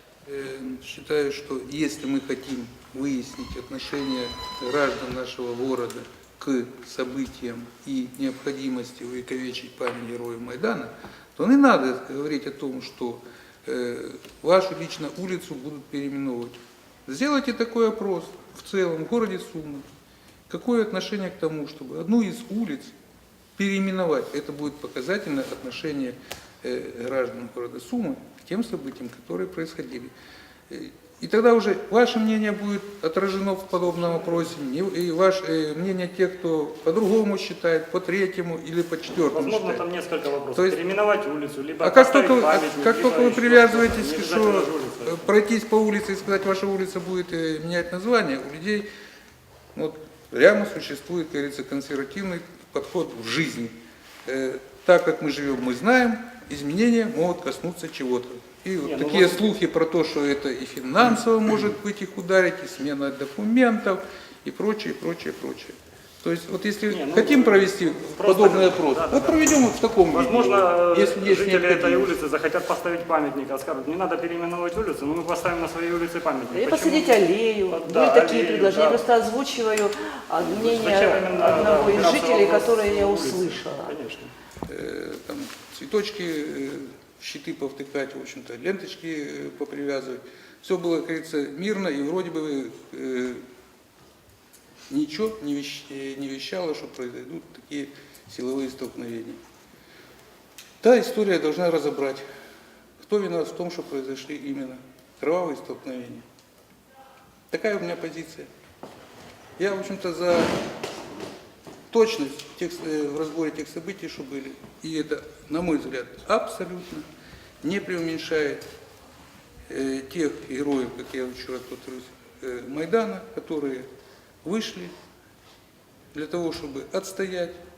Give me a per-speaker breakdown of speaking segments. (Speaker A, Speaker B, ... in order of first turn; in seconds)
Speaker A: 0.3-19.9, 20.5-22.9, 23.6-30.1, 30.7-39.8, 41.8-48.9, 49.8-53.7, 54.3-72.1, 84.7-93.4, 94.9-99.4, 100.8-102.2, 103.0-106.3, 107.5-108.5, 109.6-110.5, 111.9-117.1, 117.6-118.6, 119.7-123.9, 124.4-124.9, 126.1-127.6
Speaker B: 39.3-45.3, 58.8-59.5, 66.9-69.4, 70.1-79.0, 80.4-84.3
Speaker C: 76.5-84.0